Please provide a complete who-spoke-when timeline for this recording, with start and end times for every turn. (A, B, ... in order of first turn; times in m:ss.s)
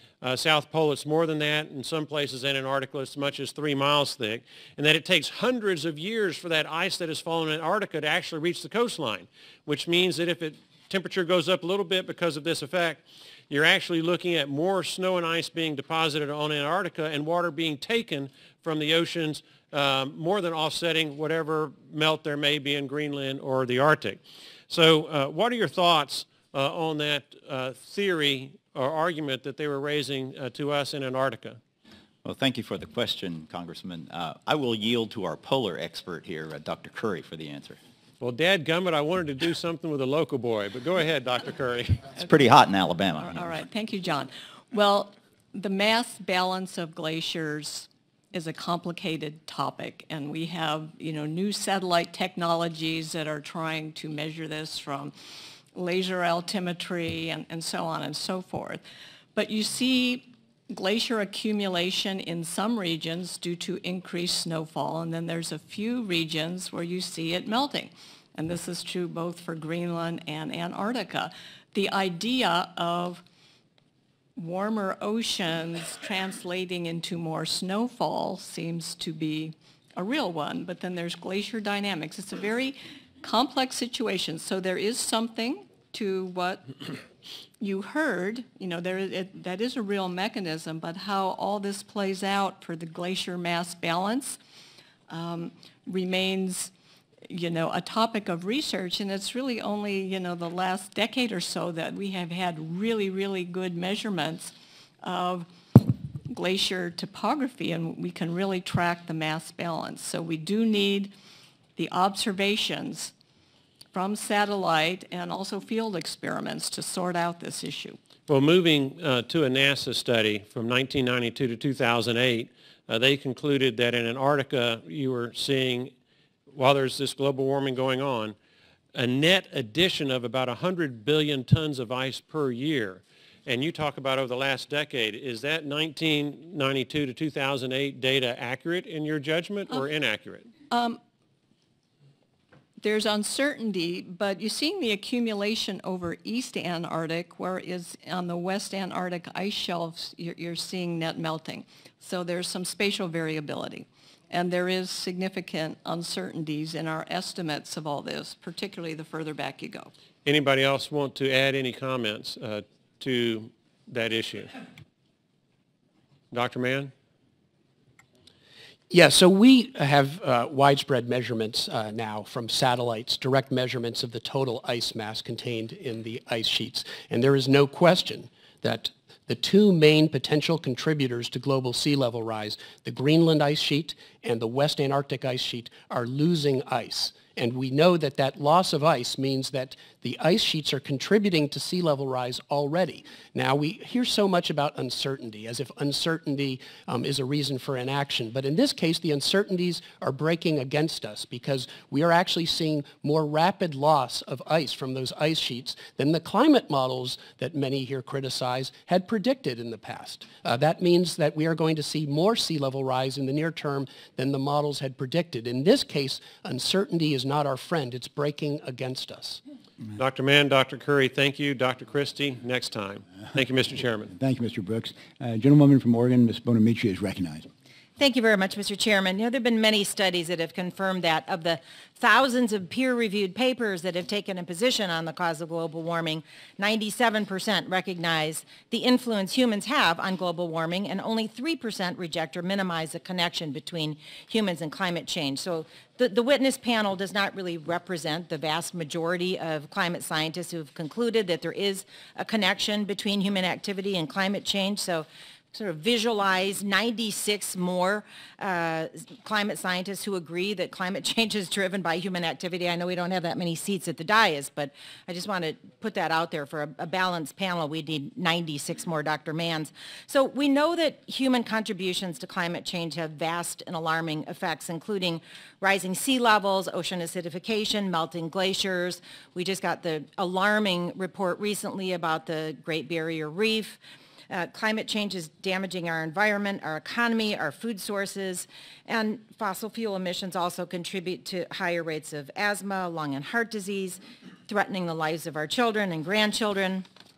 0:00.2-0:31.6 A
0:32.2-0:37.8 B
0:38.2-0:42.1 A
0:42.2-0:43.6 B
0:43.2-0:55.1 C
0:55.7-0:58.8 C
0:59.4-1:13.2 C
1:14.4-1:26.9 C
1:27.6-1:34.4 C
1:35.1-1:36.7 C
1:37.3-1:45.5 C
1:46.3-1:51.1 C
1:51.8-1:53.1 C
1:53.9-1:58.0 C
1:58.3-2:05.9 A
2:06.5-2:08.4 A
2:09.0-2:20.5 A
2:20.7-2:21.0 C
2:22.8-2:39.9 C
2:40.2-2:44.5 A
2:46.3-2:46.9 A
2:48.9-3:39.4 D
3:40.0-3:44.1 A
3:44.1-3:47.5 E
3:48.0-4:43.8 F
4:44.3-4:56.9 F